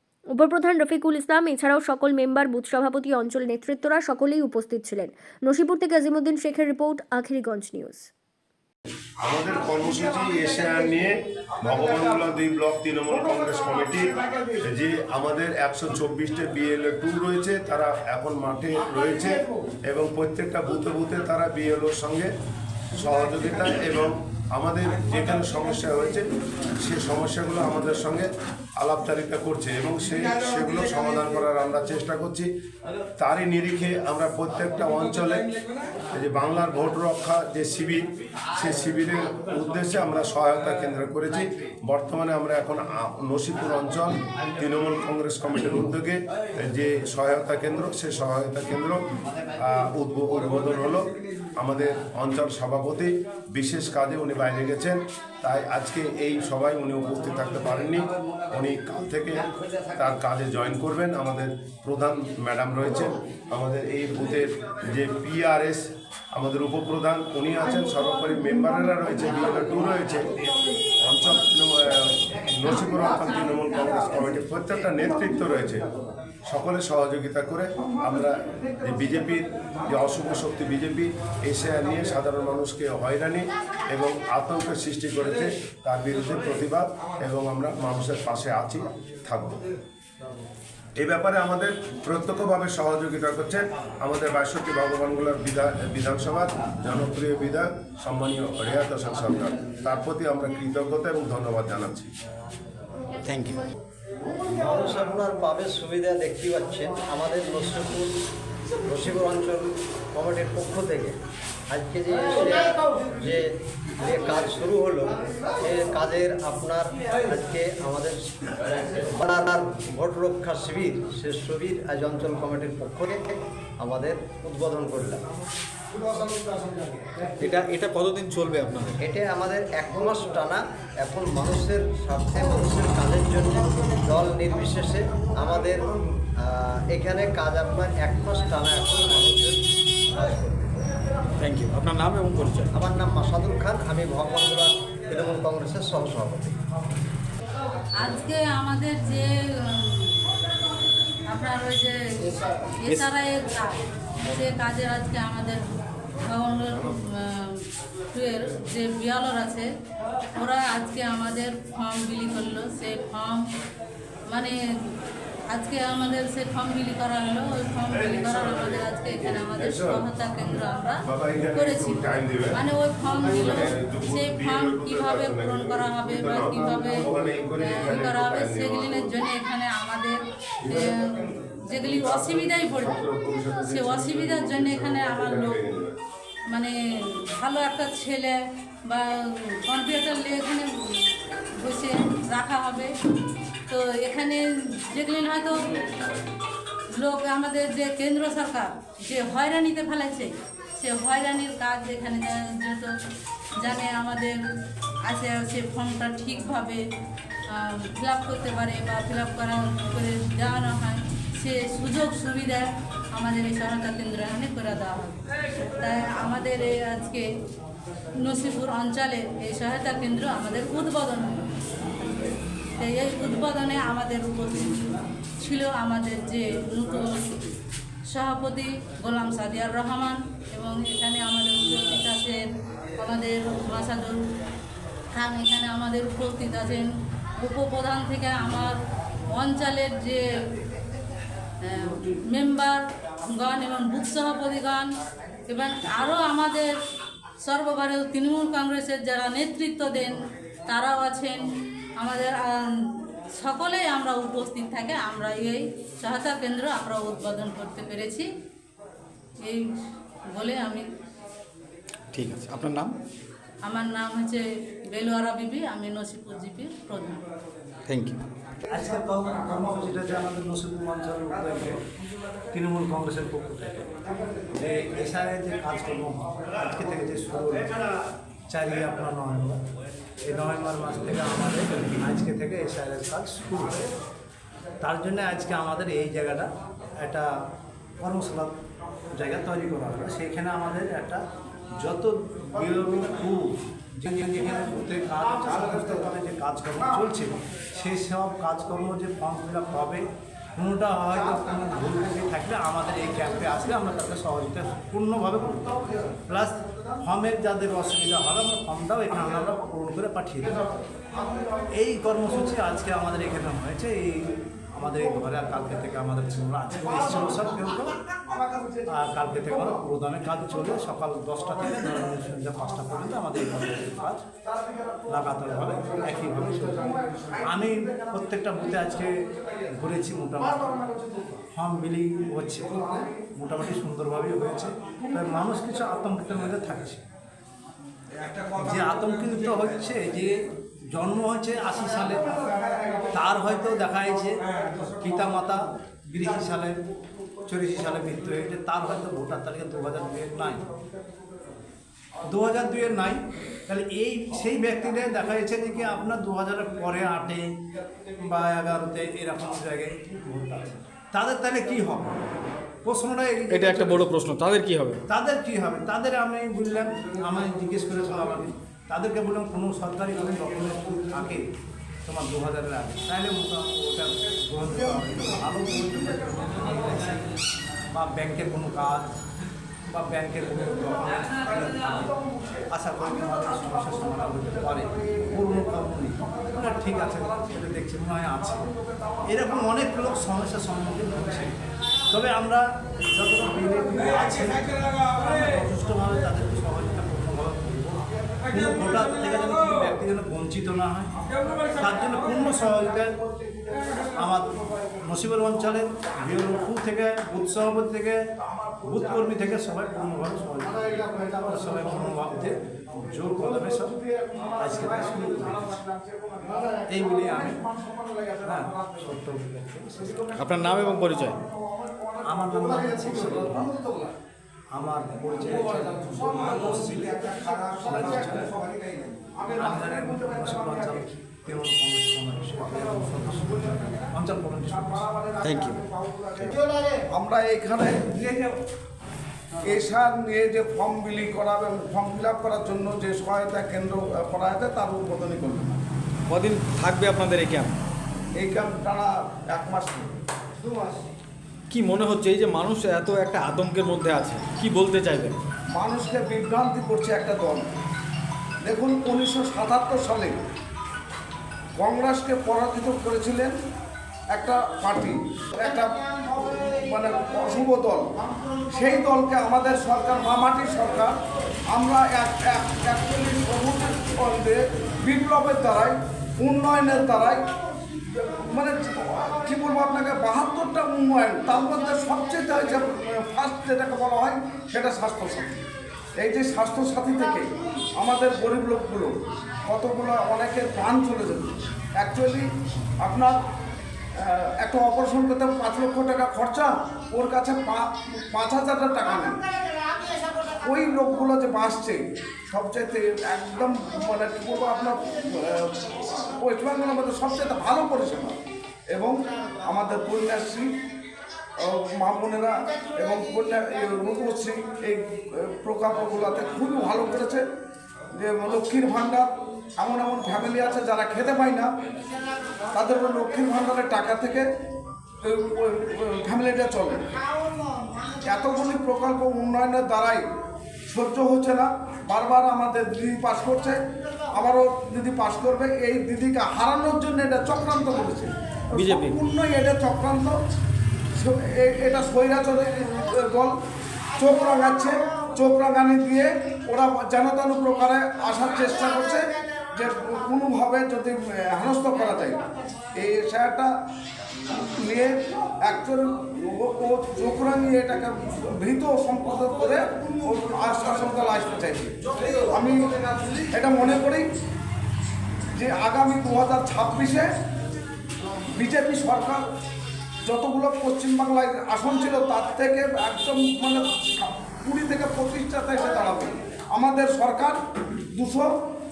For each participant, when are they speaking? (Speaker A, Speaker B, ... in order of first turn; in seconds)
Speaker A: 0.3-8.1
Speaker B: 9.2-22.3, 22.9-26.3, 26.8-32.5, 33.2-35.5, 36.1-38.0, 38.5-49.0, 49.5-70.3, 71.0-75.8, 76.5-89.6, 91.0-102.1, 168.2-170.0, 171.1-172.6, 173.3-179.1, 180.6-181.0, 181.9-186.0
Speaker C: 68.3-68.9, 75.4-76.1, 311.1-311.6, 318.1-318.9, 324.5-324.9, 326.9-327.4, 330.9-331.4, 382.3-382.6, 384.7-385.2, 386.3-387.4, 388.7-389.2, 414.1-414.5, 415.8-416.8, 417.8-418.8, 420.4-422.2, 429.4-431.0, 434.9-436.5, 437.1-438.4, 439.6-445.8, 448.4-450.1, 455.7-457.6, 458.6-460.4, 461.8-463.6, 464.3-468.0, 468.7-471.2, 471.7-477.4, 478.1-485.6, 486.2-489.1, 489.7-492.5, 493.0-493.4, 494.2-499.4, 500.6-508.4, 508.9-510.7, 511.6-517.4, 518.1-521.7, 522.7-524.5, 525.2-527.0, 528.2-530.2, 530.9-533.8, 534.3-540.4, 541.2-543.5, 544.2-552.4, 552.9-553.7, 554.5-563.0, 563.5-564.2, 565.5-567.3, 568.5-569.4, 570.2-577.6, 578.1-578.5
Speaker D: 103.3-103.6, 127.4-129.0, 141.4-142.7, 262.1-263.0, 267.9-268.2, 363.5-365.0, 420.3-421.4, 435.4-435.8, 446.3-447.8, 451.7-455.4, 538.7-539.2
Speaker E: 104.3-108.1, 108.8-111.2, 111.7-125.2, 129.0-140.8, 142.7-146.6
Speaker F: 148.0-149.3, 149.8-150.1, 151.3-153.8, 154.3-155.6, 156.2-157.6, 158.1-159.7, 160.4-163.4, 165.5-185.6, 187.4-190.7, 191.6-192.9, 193.7-196.0, 197.0-202.9, 203.6-204.4, 205.1-206.8, 207.5-217.3, 218.2-221.5, 222.8-227.5, 228.1-232.5, 233.0-234.2, 235.1-236.9, 237.4-238.8, 239.3-240.2, 241.7-244.9, 245.5-246.7, 247.4-251.5, 252.0-252.6, 253.4-258.3, 260.3-260.8, 263.6-267.2
Speaker G: 268.6-271.8, 272.5-273.9, 274.5-277.8, 278.5-279.6, 280.2-283.9, 284.8-286.5, 287.0-287.3, 288.0-288.6, 289.1-291.2, 291.8-310.7, 311.7-318.0, 318.9-324.2, 325.1-330.9, 331.5-337.1, 338.6-346.8, 347.4-350.7, 352.2-357.4, 358.1-362.2, 362.8-364.1, 365.1-371.5, 372.1-377.3, 377.9-379.1, 379.9-382.1, 382.7-388.7, 389.3-391.5, 392.1-401.1, 401.8-403.2, 404.1-408.2, 408.8-414.0, 414.6-415.8, 416.9-417.7, 418.4-420.3, 422.2-423.8, 424.8-428.6, 429.6-435.1